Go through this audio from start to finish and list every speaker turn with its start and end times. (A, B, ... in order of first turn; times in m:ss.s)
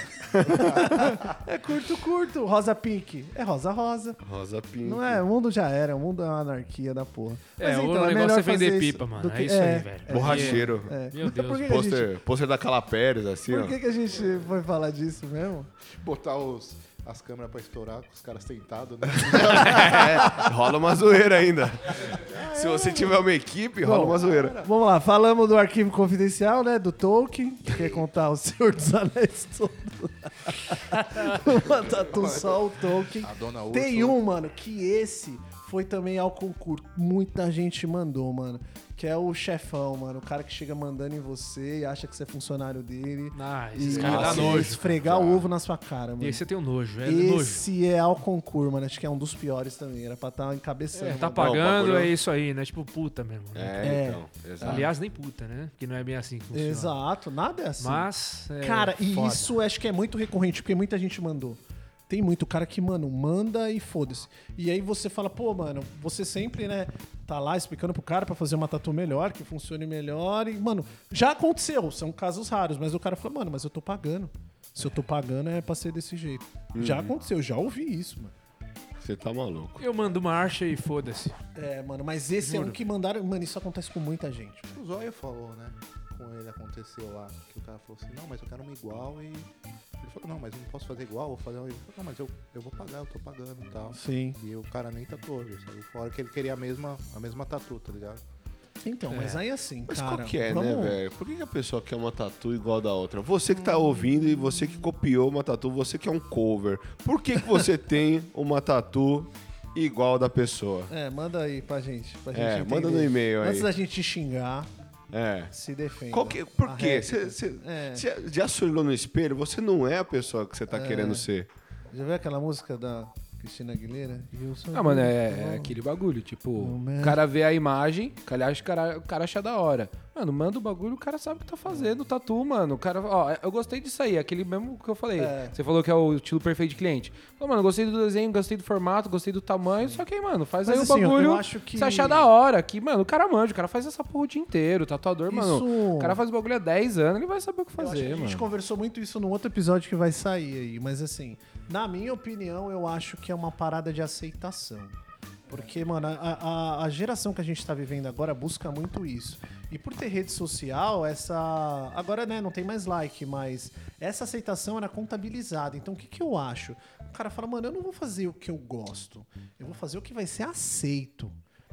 0:00.3-0:01.1 A
0:00.5-0:04.2 B
0:04.2-0:05.2 A
0:04.8-0:12.1 B
0:07.6-0:11.7 C
0:10.1-0:10.9 A
0:11.5-0:13.8 A
0:13.5-0:15.7 B
0:15.9-0:20.4 D
0:19.2-0:24.6 A
0:22.2-0:23.2 D
0:23.8-0:46.4 B
0:23.9-0:24.7 D
0:31.5-0:34.2 D
0:43.3-0:45.0 C
0:43.9-0:45.4 A
0:46.2-0:47.6 C
0:47.0-0:51.6 B
0:50.9-0:54.0 C
0:51.4-0:52.1 A
0:53.5-0:54.9 A
0:53.8-0:54.9 B
0:54.6-0:57.0 C
0:56.5-0:58.1 B
0:57.8-0:59.5 C
0:58.6-1:18.3 B
1:16.7-1:17.1 A
1:19.0-1:19.8 A
1:19.8-1:21.4 C
1:21.5-1:24.8 B
1:22.4-1:22.8 C
1:24.7-1:29.5 D
1:30.0-1:38.2 D
1:33.9-1:34.4 B
1:38.8-1:41.0 B
1:39.1-1:39.4 C
1:39.9-1:50.9 A
1:50.9-1:54.7 B
1:52.3-1:53.7 A
1:55.1-1:55.5 A
1:55.5-1:58.0 B
1:56.1-2:01.5 A
2:00.7-2:01.2 B
2:01.9-2:05.7 B
2:04.7-2:28.5 E
2:06.6-2:07.2 B
2:11.7-2:11.9 B
2:15.2-2:15.6 B
2:20.6-2:22.3 B
2:25.3-2:26.2 B
2:27.8-2:34.9 B
2:35.5-2:51.3 B